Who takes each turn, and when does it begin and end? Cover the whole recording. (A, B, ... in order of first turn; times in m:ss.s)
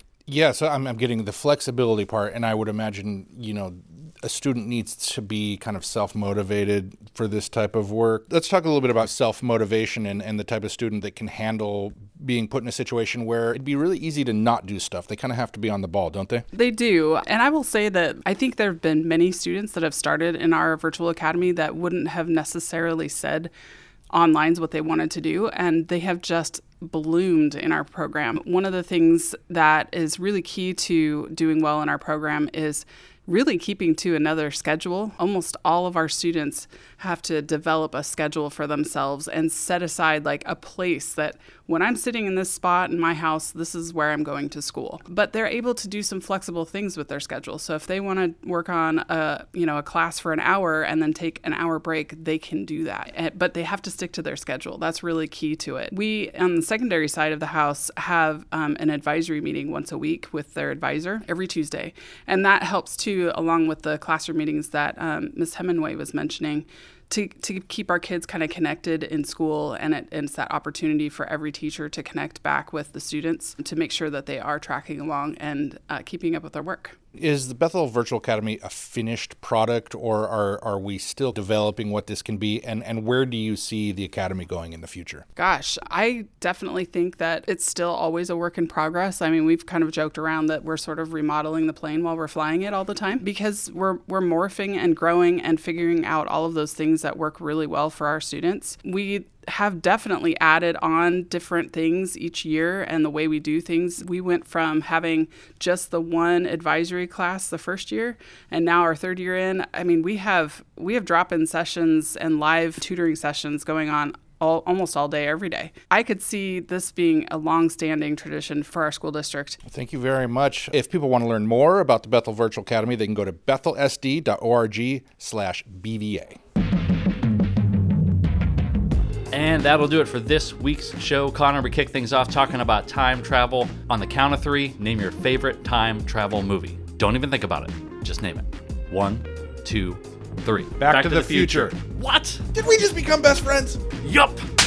0:00.3-0:16.4 A
0:16.5-0:23.5 B
0:24.1-1:17.0 B
1:17.2-1:25.2 A
1:25.4-1:59.6 B
1:59.6-2:06.4 A
2:09.3-2:22.4 C
2:20.8-2:21.7 A
2:22.5-2:23.8 A
2:24.0-2:24.4 C